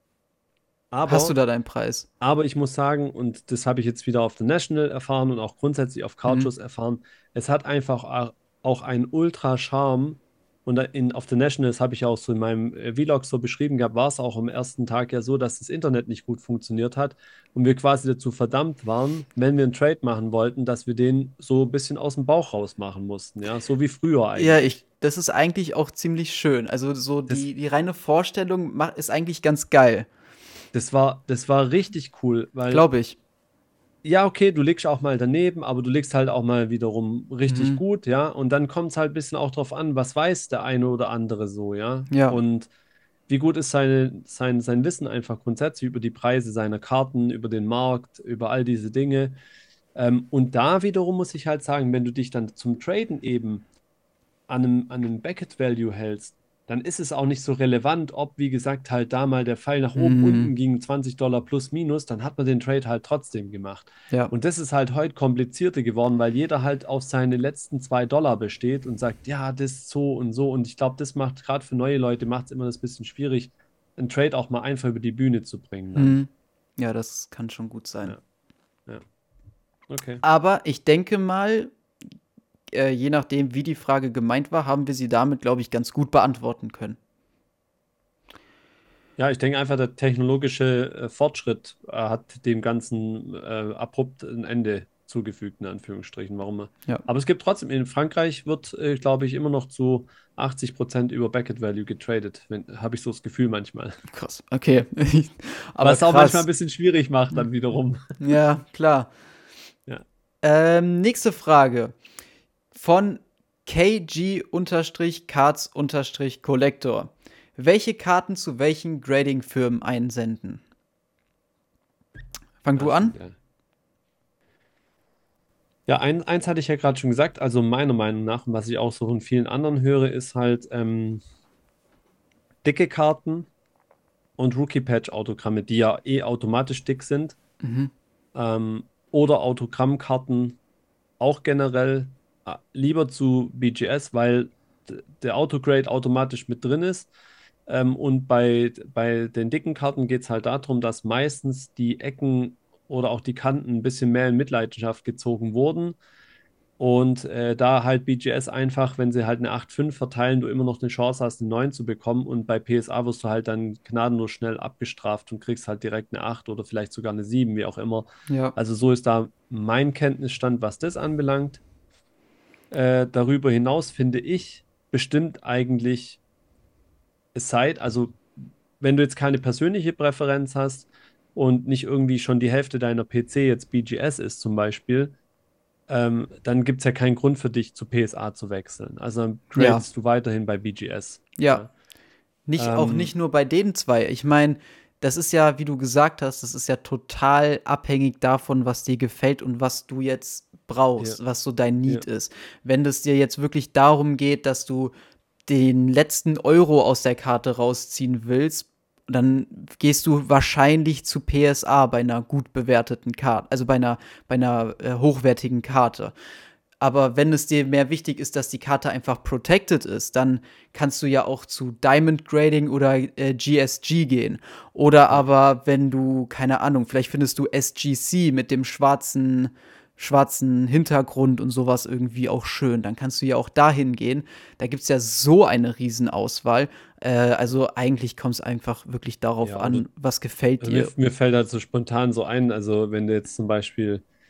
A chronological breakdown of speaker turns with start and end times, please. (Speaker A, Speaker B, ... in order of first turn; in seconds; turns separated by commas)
Speaker A: 0.9-1.3, Speaker B: 1.0-2.1, Speaker A: 2.2-24.8, Speaker B: 24.4-30.1, Speaker A: 30.7-32.8, Speaker B: 32.7-33.2, Speaker A: 34.0-42.7, Speaker B: 37.5-37.8, Speaker B: 42.1-42.4, Speaker A: 43.3-49.3, Speaker A: 49.9-53.6, Speaker A: 54.5-76.2, Speaker B: 60.0-60.5, Speaker B: 76.0-78.2, Speaker A: 79.9-80.2, Speaker B: 80.2-81.7, Speaker B: 82.7-87.0, Speaker A: 89.2-104.0, Speaker B: 104.1-106.4, Speaker A: 105.8-108.2, Speaker B: 108.2-109.1, Speaker B: 110.4-111.9, Speaker B: 112.7-120.6, Speaker B: 122.6-123.2, Speaker A: 122.8-123.3, Speaker A: 125.9-131.2, Speaker A: 132.6-133.5, Speaker A: 134.4-137.4, Speaker B: 137.6-137.9, Speaker A: 138.3-140.6, Speaker A: 141.2-147.1, Speaker A: 147.7-156.0, Speaker A: 156.8-171.6, Speaker B: 168.3-168.5, Speaker A: 172.7-176.2, Speaker A: 177.3-185.1, Speaker A: 185.9-191.7, Speaker B: 189.6-189.8, Speaker B: 191.4-191.6, Speaker B: 192.5-204.9, Speaker A: 192.6-193.1, Speaker B: 205.5-216.1, Speaker B: 216.8-240.9, Speaker A: 239.4-239.9, Speaker A: 240.6-244.0